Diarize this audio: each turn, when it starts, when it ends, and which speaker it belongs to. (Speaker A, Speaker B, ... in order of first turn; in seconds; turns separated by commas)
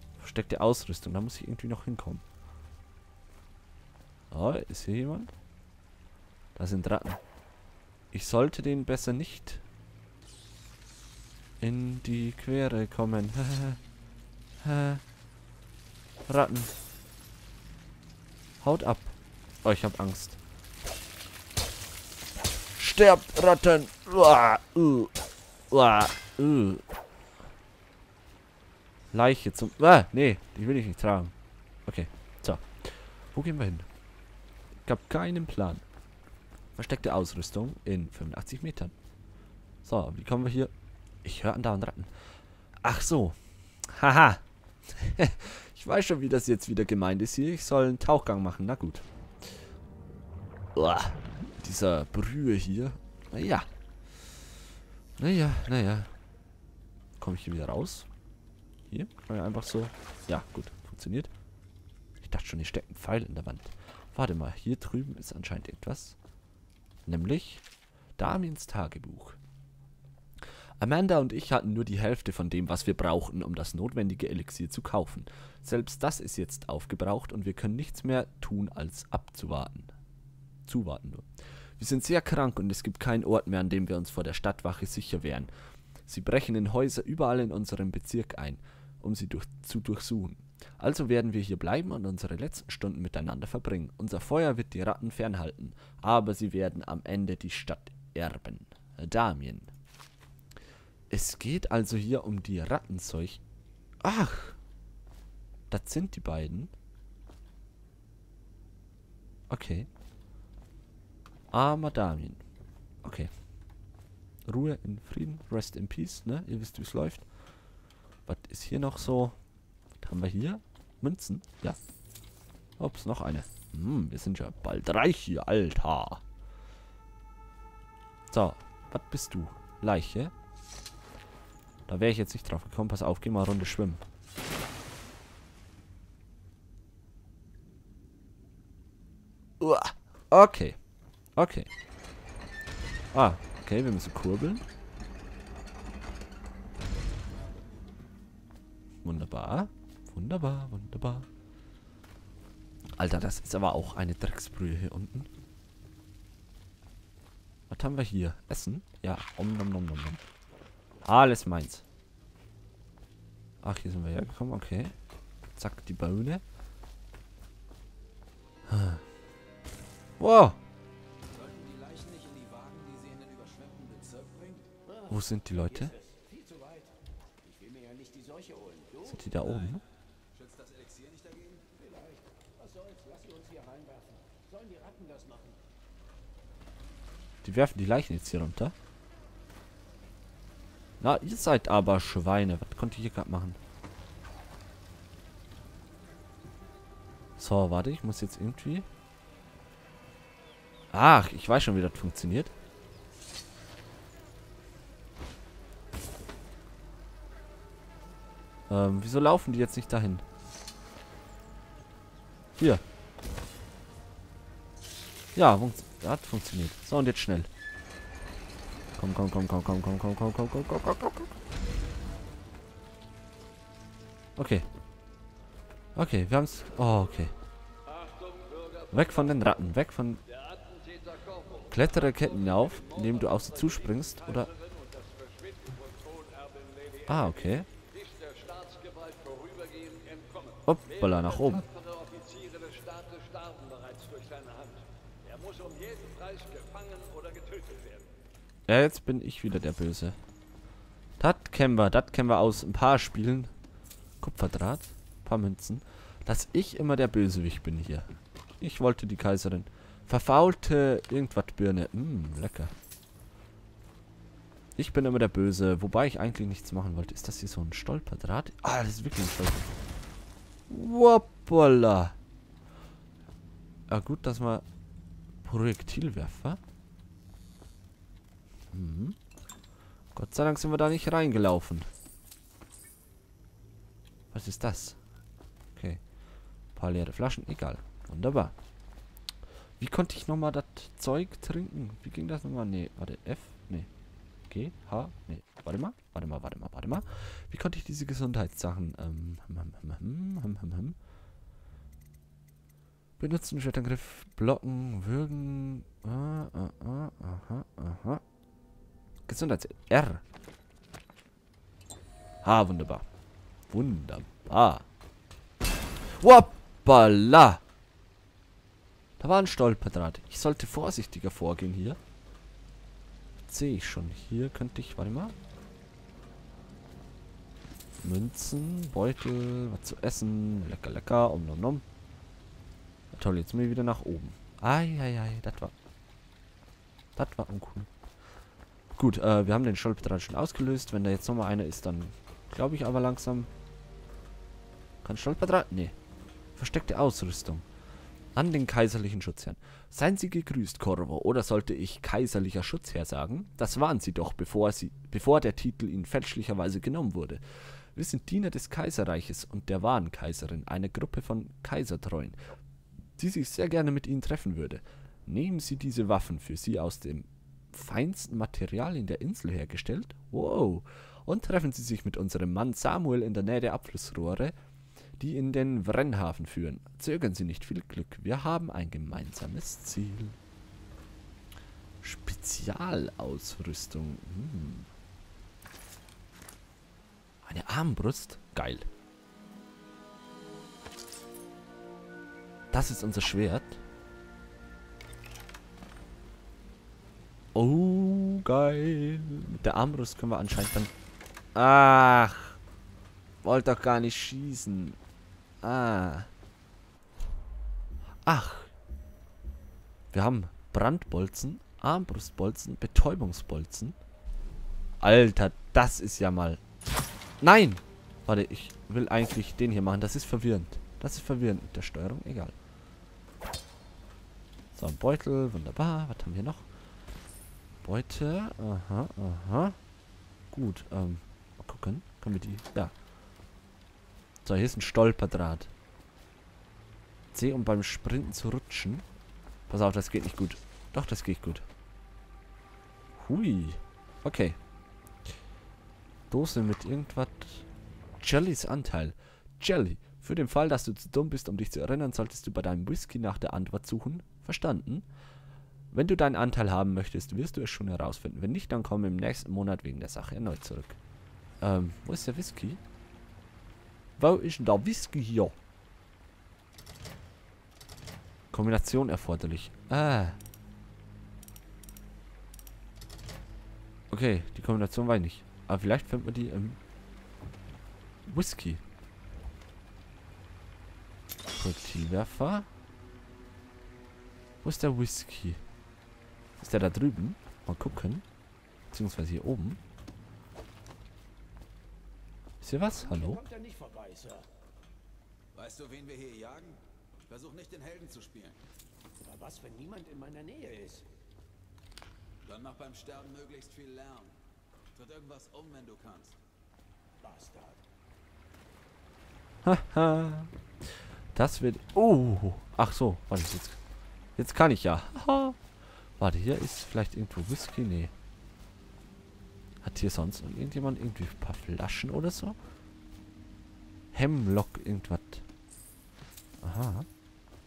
Speaker A: 0.2-2.2, Speaker A: 4.3-5.3, Speaker A: 6.5-7.2, Speaker A: 8.1-9.6, Speaker A: 11.6-13.8, Speaker A: 14.6-15.0, Speaker A: 16.3-16.7, Speaker A: 18.6-20.4, Speaker A: 22.8-25.2, Speaker A: 25.7-26.8, Speaker A: 29.1-31.3, Speaker A: 31.9-33.9, Speaker A: 34.8-35.8, Speaker A: 36.7-38.9, Speaker A: 39.8-40.7, Speaker A: 41.2-42.1, Speaker A: 42.8-49.0, Speaker A: 50.7-53.7, Speaker A: 55.2-56.1, Speaker A: 57.2-58.1, Speaker A: 58.9-61.3, Speaker A: 62.2-66.2, Speaker A: 67.0-67.7, Speaker A: 68.2-69.4, Speaker A: 70.8-79.9, Speaker A: 80.7-81.3, Speaker A: 81.8-85.5, Speaker A: 86.0-99.7, Speaker A: 101.1-103.4, Speaker A: 104.0-104.6, Speaker A: 105.7-106.7, Speaker A: 109.5-109.9, Speaker A: 111.5-112.4, Speaker A: 113.0-113.3, Speaker A: 114.5-117.3, Speaker A: 118.2-119.4, Speaker A: 120.0-121.8, Speaker A: 122.8-126.2, Speaker A: 128.3-130.3, Speaker A: 131.9-134.0, Speaker A: 139.6-140.8, Speaker A: 141.3-141.7, Speaker A: 143.1-144.6, Speaker A: 149.0-151.3, Speaker A: 153.0-155.3, Speaker A: 157.7-160.2, Speaker A: 161.0-161.8, Speaker A: 163.6-164.9, Speaker A: 165.5-166.4, Speaker A: 168.7-169.0, Speaker A: 170.2-170.6, Speaker B: 171.3-174.8, Speaker A: 175.1-175.9, Speaker C: 175.6-179.2, Speaker A: 179.0-179.8, Speaker B: 180.3-181.8, Speaker C: 181.7-185.6, Speaker A: 187.4-188.7, Speaker A: 191.0-193.6, Speaker A: 197.4-198.9, Speaker A: 200.9-202.5, Speaker A: 208.7-210.2, Speaker A: 212.6-212.8, Speaker A: 215.3-217.5, Speaker A: 219.0-221.4, Speaker A: 224.4-224.7, Speaker A: 225.9-227.3, Speaker D: 227.9-229.1, Speaker A: 228.9-230.2, Speaker D: 230.3-233.7, Speaker A: 231.7-234.5, Speaker D: 234.5-248.1, Speaker A: 237.0-237.7, Speaker A: 240.7-241.7, Speaker A: 248.7-250.2, Speaker A: 251.2-253.5, Speaker A: 254.2-262.7, Speaker A: 264.8-269.7, Speaker A: 270.7-272.1, Speaker A: 273.9-274.6, Speaker A: 275.4-276.6, Speaker A: 278.7-279.1, Speaker A: 280.1-281.9, Speaker A: 284.3-285.0, Speaker A: 285.7-286.0, Speaker A: 286.7-288.5, Speaker A: 289.8-293.9, Speaker A: 294.5-301.0, Speaker A: 303.2-308.2, Speaker A: 309.3-310.2, Speaker A: 312.4-313.0, Speaker A: 313.7-314.9, Speaker A: 316.0-317.6, Speaker A: 319.2-322.0, Speaker A: 323.5-325.4, Speaker A: 328.0-331.8, Speaker A: 333.1-335.7, Speaker A: 337.1-337.9, Speaker A: 338.9-343.5, Speaker A: 345.0-345.9, Speaker A: 346.6-347.6, Speaker A: 348.3-362.4, Speaker A: 363.2-374.5, Speaker A: 375.2-380.4, Speaker A: 382.0-384.9, Speaker A: 387.4-388.9, Speaker A: 392.7-393.8, Speaker A: 397.5-400.9, Speaker A: 401.5-402.6, Speaker A: 403.4-405.0, Speaker A: 405.6-406.3, Speaker A: 408.2-408.7, Speaker A: 410.1-413.9, Speaker A: 415.0-416.6, Speaker A: 417.4-422.5, Speaker A: 424.7-426.7, Speaker A: 427.8-429.8, Speaker A: 430.5-432.9, Speaker A: 434.4-435.7, Speaker A: 437.3-439.0, Speaker A: 439.7-441.6, Speaker A: 443.1-444.6, Speaker A: 446.3-447.7, Speaker A: 448.2-455.0, Speaker A: 455.9-461.0, Speaker A: 461.6-462.8, Speaker A: 464.2-465.6, Speaker A: 468.5-470.4, Speaker A: 474.1-476.8, Speaker A: 478.2-478.8, Speaker A: 481.5-482.7, Speaker A: 484.6-485.6, Speaker A: 486.6-488.2, Speaker A: 488.9-489.8, Speaker A: 492.6-493.4, Speaker C: 493.0-494.5, Speaker B: 495.5-498.6, Speaker C: 499.2-501.1, Speaker B: 502.4-504.4, Speaker B: 504.9-506.4, Speaker C: 507.2-507.8, Speaker A: 509.6-510.5, Speaker A: 511.3-513.8, Speaker A: 514.4-515.6, Speaker A: 516.2-518.1, Speaker A: 519.8-522.6, Speaker A: 524.1-525.4, Speaker A: 526.6-527.1